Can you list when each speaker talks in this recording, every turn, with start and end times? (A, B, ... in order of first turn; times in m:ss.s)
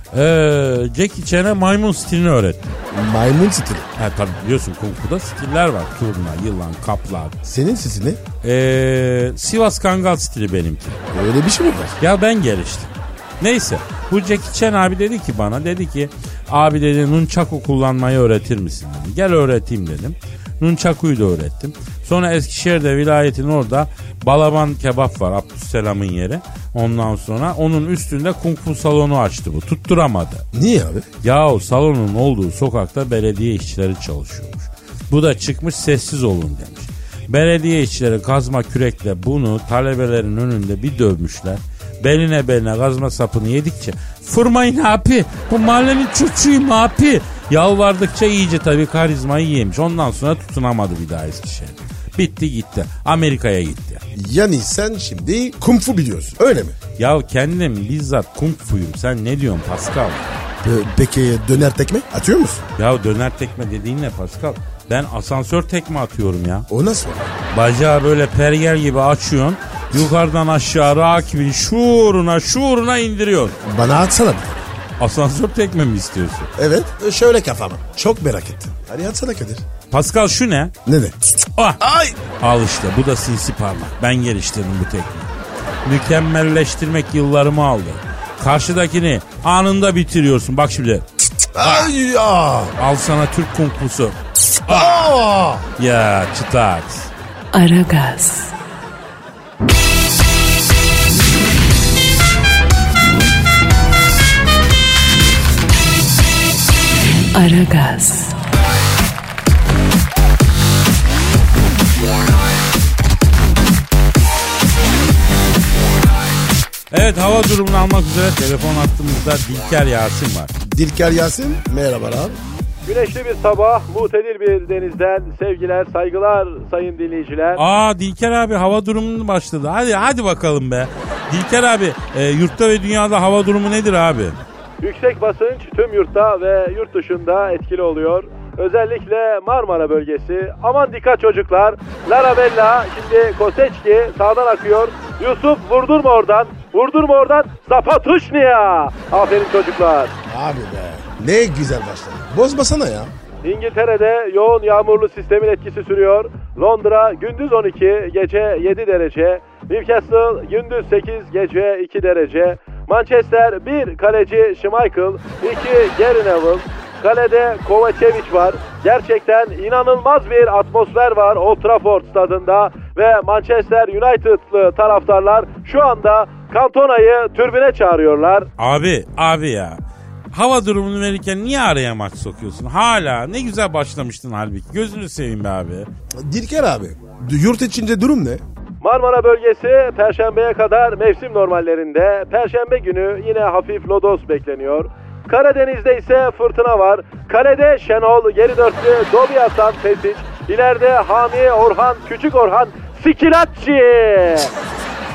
0:00.1-0:02.8 A
0:02.9-0:03.9 B
0:04.0-0:07.4 A
0:07.4-0:08.2 B
0:08.4-0:11.0 A
0:11.1-0:12.0 B
0:12.0-0:30.4 A
0:30.5-0:31.0 B
0:31.2-0:54.0 A
0:54.1-0:56.8 B
0:57.0-1:00.4 A
1:00.6-1:02.7 B
1:02.8-1:06.6 A
1:06.7-1:07.3 B
1:07.5-1:13.6 A
1:13.6-1:14.7 B
1:15.0-1:16.5 A
1:16.6-1:19.6 B
1:19.9-1:20.7 A
1:20.8-1:21.2 B
1:21.8-1:22.2 B
1:22.4-1:25.3 A
1:25.8-1:31.0 A
1:31.5-1:32.7 B
1:31.6-1:31.9 A
1:32.8-1:35.1 A
1:34.6-1:35.6 B
1:35.8-1:37.1 A
1:37.5-1:38.5 C
1:47.3-1:48.3 C
1:56.9-2:00.5 A
2:00.6-2:02.4 B
2:02.8-2:07.6 D
2:07.6-2:14.4 A
2:14.8-2:30.1 D
2:30.3-2:33.1 B
2:33.4-2:58.5 D
2:58.6-2:59.8 A
3:00.3-3:05.9 A
3:06.2-3:08.4 B
3:08.8-3:24.5 D